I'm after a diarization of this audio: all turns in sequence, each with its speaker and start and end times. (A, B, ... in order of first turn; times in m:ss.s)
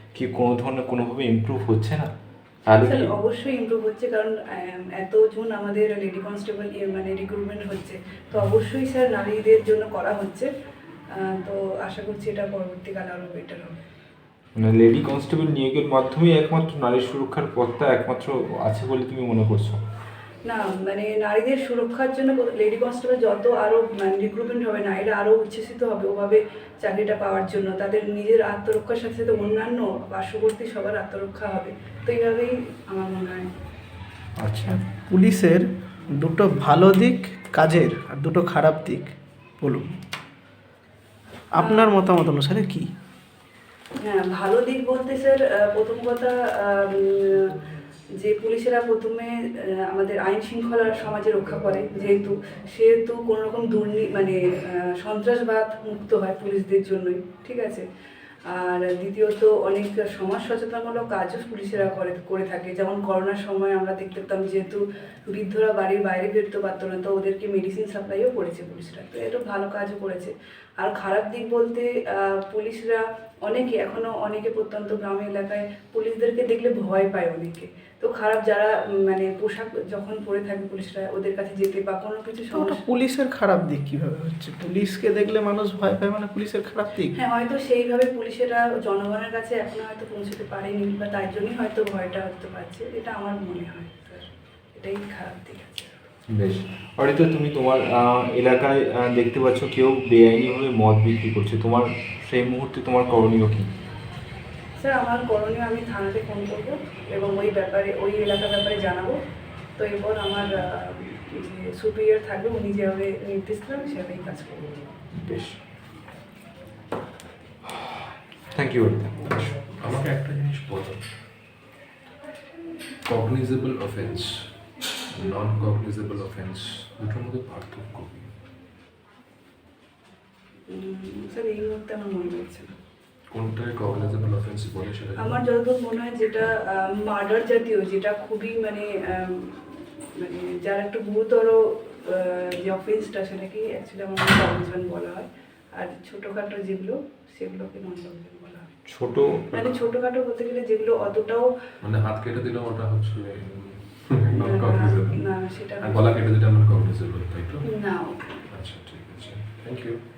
0:00.1-0:02.1 A
0:02.7-0:03.1 A
0:02.8-0:10.5 B
0:11.1-0:13.8 B
0:14.6-0:19.8 A
0:20.4-0:33.5 B
0:34.4-0:34.8 A
0:34.6-0:40.0 C
0:41.5-0:42.9 C
0:41.6-0:42.0 B
0:44.0-0:47.6 B
0:48.2-0:57.8 B
0:58.5-1:22.8 B
1:22.5-1:27.1 C
1:27.1-1:36.0 B
1:36.3-1:43.7 A
1:44.8-1:49.2 B
1:49.8-1:54.7 B
1:55.1-1:55.6 A
1:58.5-1:59.6 A
1:59.8-2:01.1 D
2:03.0-2:08.3 D
2:10.7-2:12.7 B
2:13.3-2:15.4 D
2:15.2-2:28.7 B
2:28.8-2:29.5 A
2:29.5-2:31.5 B
2:31.8-2:40.0 D
2:34.4-2:36.1 B
2:37.6-2:38.3 B